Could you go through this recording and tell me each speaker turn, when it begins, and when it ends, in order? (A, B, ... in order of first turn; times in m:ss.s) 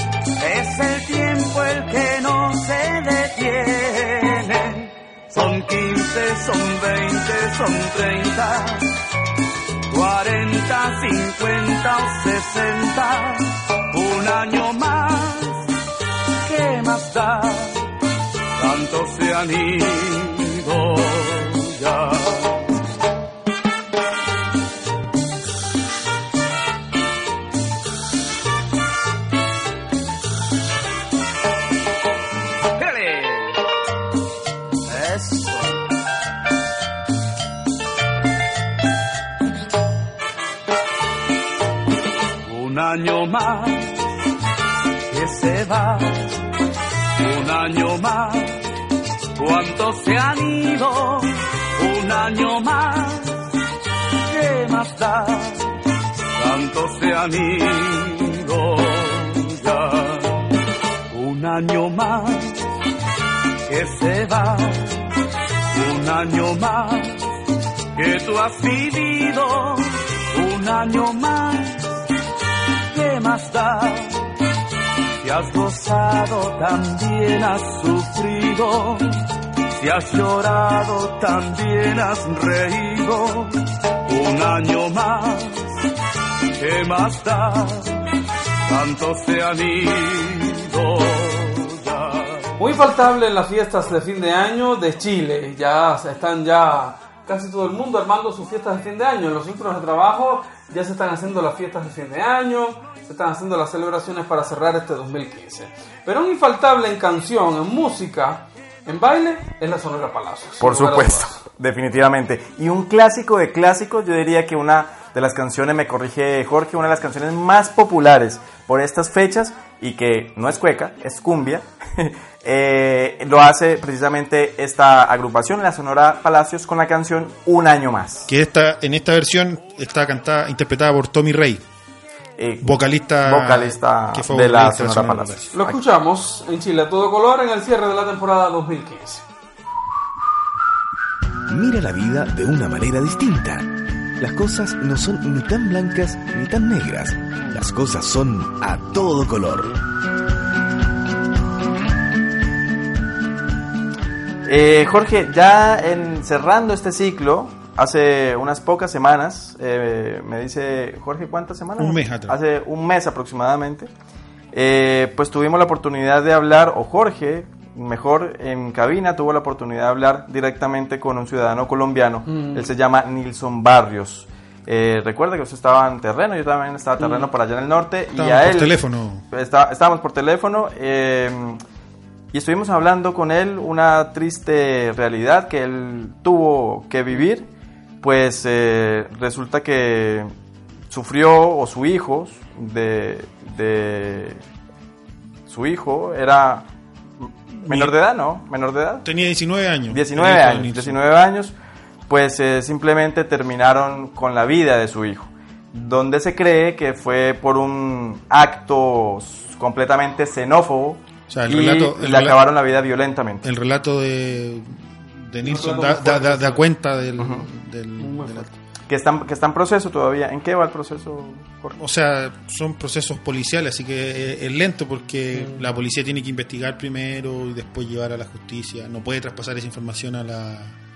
0:00.4-0:08.9 A
0:09.9-0:15.7 A
0:16.4-0:17.8 A
0:18.6-0:22.6 A
0:32.8-0:33.6 A
0:34.9-0:35.8 A
0:42.4-0:43.9 A
0:45.1-0:46.3 A
0:47.2-0:48.6 A
0:49.4-0:53.4 A
0:54.3-0:55.7 A
0:56.4-1:00.5 A
1:01.1-1:02.6 A
1:03.7-1:04.9 A
1:05.7-1:07.2 A
1:08.0-1:11.9 A
1:12.9-1:14.2 A
1:15.2-1:19.0 A
1:19.8-1:23.5 A
1:24.1-1:25.8 A
1:26.6-1:28.0 A
1:28.7-1:32.5 A
1:32.6-1:51.4 B
1:50.6-2:08.3 C
2:08.3-2:11.6 D
2:12.4-2:15.8 C
2:12.6-2:15.5 D
2:15.5-2:19.2 B
2:21.5-2:23.7 E
2:24.2-2:29.8 E
2:34.4-2:43.9 C
2:41.8-2:42.4 D
2:44.5-3:01.6 C
2:52.3-2:52.7 B
2:57.0-2:57.3 B
2:58.2-2:59.3 D
3:02.3-3:07.5 C
3:08.0-3:10.3 C
3:10.9-3:14.4 C
3:15.5-3:16.7 C
3:17.2-3:19.0 C
3:17.6-3:17.9 D
3:19.0-3:21.0 D
3:19.9-3:21.6 C
3:22.1-3:33.4 C
3:31.3-3:32.5 D
3:33.4-3:38.5 D
3:35.4-3:36.7 B
3:37.2-3:37.4 C
3:38.0-3:38.5 B
3:38.9-3:41.8 C
3:41.8-3:50.8 D
3:45.3-3:45.6 B